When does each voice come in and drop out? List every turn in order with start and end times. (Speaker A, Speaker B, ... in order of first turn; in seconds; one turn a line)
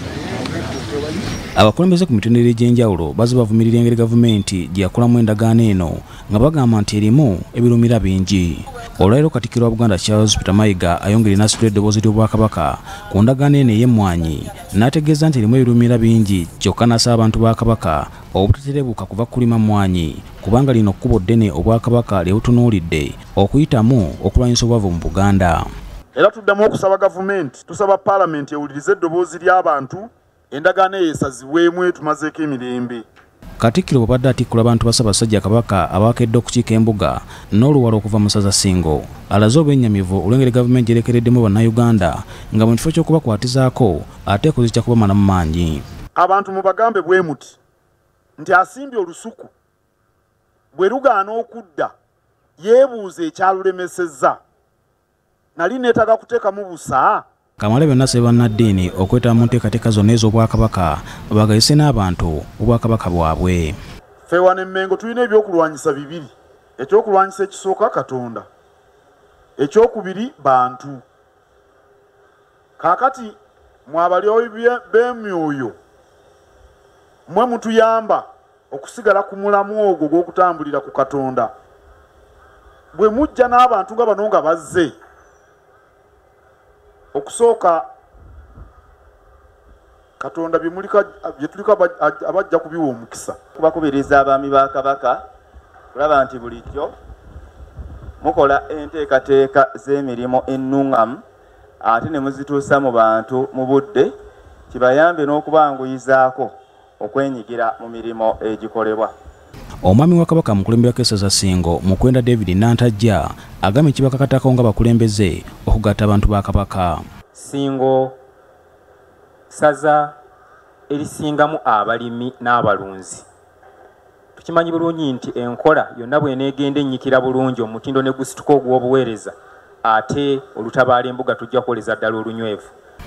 Speaker A: 1.6-25.6
Speaker B: 26.1-33.0
Speaker A: 33.6-45.8
Speaker B: 46.1-47.6
Speaker B: 48.4-49.5
Speaker B: 50.7-51.9
Speaker B: 52.6-54.4
Speaker B: 55.5-57.2
Speaker A: 57.6-63.8
Speaker B: 64.2-68.5
Speaker B: 69.6-71.0
Speaker B: 72.8-75.7
Speaker B: 77.3-81.5
Speaker B: 82.9-84.9
Speaker B: 87.1-87.8
Speaker B: 90.2-93.4
Speaker C: 93.5-95.2
Speaker C: 95.9-96.9
Speaker C: 98.2-101.2
Speaker C: 101.8-104.1
Speaker C: 104.7-109.1
Speaker A: 109.8-117.0
Speaker D: 117.3-118.2
Speaker D: 119.5-120.2
Speaker D: 120.9-123.3
Speaker D: 124.3-132.7